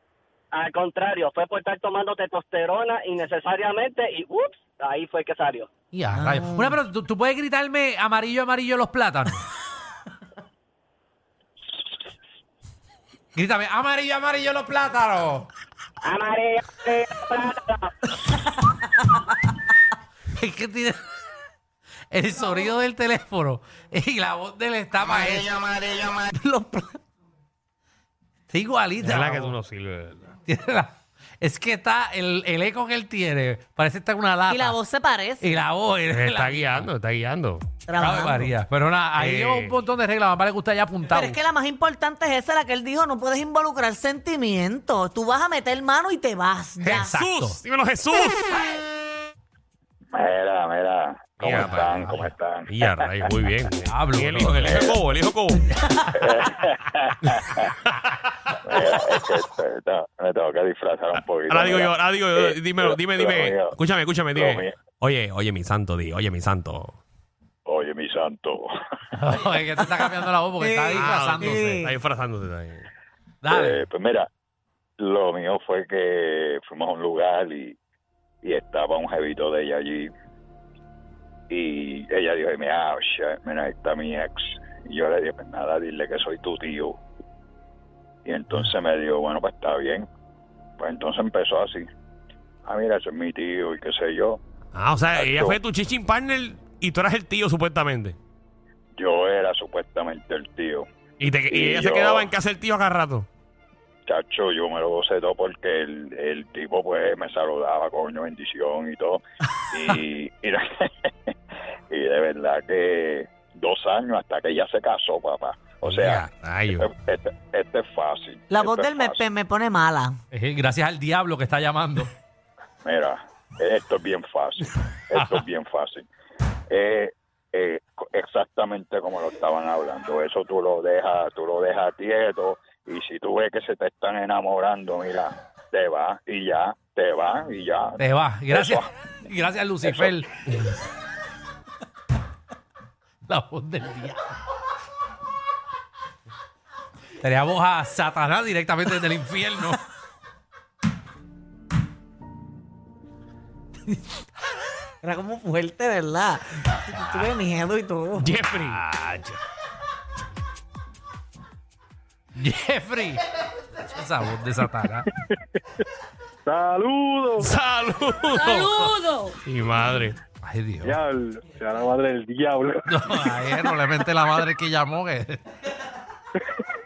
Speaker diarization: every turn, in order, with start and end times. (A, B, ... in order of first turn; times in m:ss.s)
0:00.5-0:05.7 A
0:05.9-0:09.4 B
0:13.3-0:15.5 B
0:16.0-0:17.9 A
0:20.4-0:21.0 B
0:22.1-0:25.7 B
0:28.5-0:29.6 B
0:29.0-0:30.3 C
0:30.4-0:34.8 B
0:34.5-0:35.4 D
0:35.4-0:36.9 B
0:36.1-0:37.7 C
0:37.9-0:38.5 D
0:38.0-0:41.4 B
0:39.2-0:39.8 C
0:41.1-0:47.2 D
0:46.8-0:48.6 C
0:46.9-0:47.6 B
0:50.1-0:53.2 E
0:51.4-0:52.1 C
0:51.4-0:52.3 B
0:52.7-0:55.7 C
0:53.9-0:54.8 B
0:54.6-0:55.0 E
0:56.2-0:57.6 E
0:57.9-0:58.2 C
0:58.7-1:03.8 E
1:01.5-1:07.0 C
1:04.3-1:04.8 E
1:07.7-1:08.7 E
1:09.2-1:11.8 B
1:10.6-1:11.9 D
1:10.9-1:12.9 C
1:13.4-1:13.9 B
1:13.5-1:14.3 E
1:15.0-1:17.8 E
1:18.4-1:20.1 E
1:21.5-1:27.0 E
1:28.2-1:30.1 E
1:30.8-1:31.9 E
1:32.6-1:34.4 E
1:34.7-1:38.2 C
1:35.1-1:35.6 E
1:39.0-1:40.9 E
1:41.2-1:43.3 C
1:41.5-1:42.3 E
1:44.1-1:51.3 E
1:51.9-1:59.3 E
1:55.9-1:56.9 C
1:58.5-2:00.2 D
2:00.3-2:02.1 B
2:02.8-2:06.1 E
2:05.1-2:05.4 B
2:06.7-2:18.9 E
2:18.0-2:20.3 B
2:19.9-2:20.2 E
2:23.3-2:24.2 B
2:27.2-2:29.8 B
2:35.0-2:38.3 D
2:38.2-2:38.8 C
2:38.7-2:39.4 B
2:42.4-2:43.2 B
2:43.8-2:45.1 B
2:46.5-2:47.5 F
2:47.4-2:50.2 C
2:50.4-2:51.0 B
2:50.8-2:53.7 F
2:52.9-2:55.4 B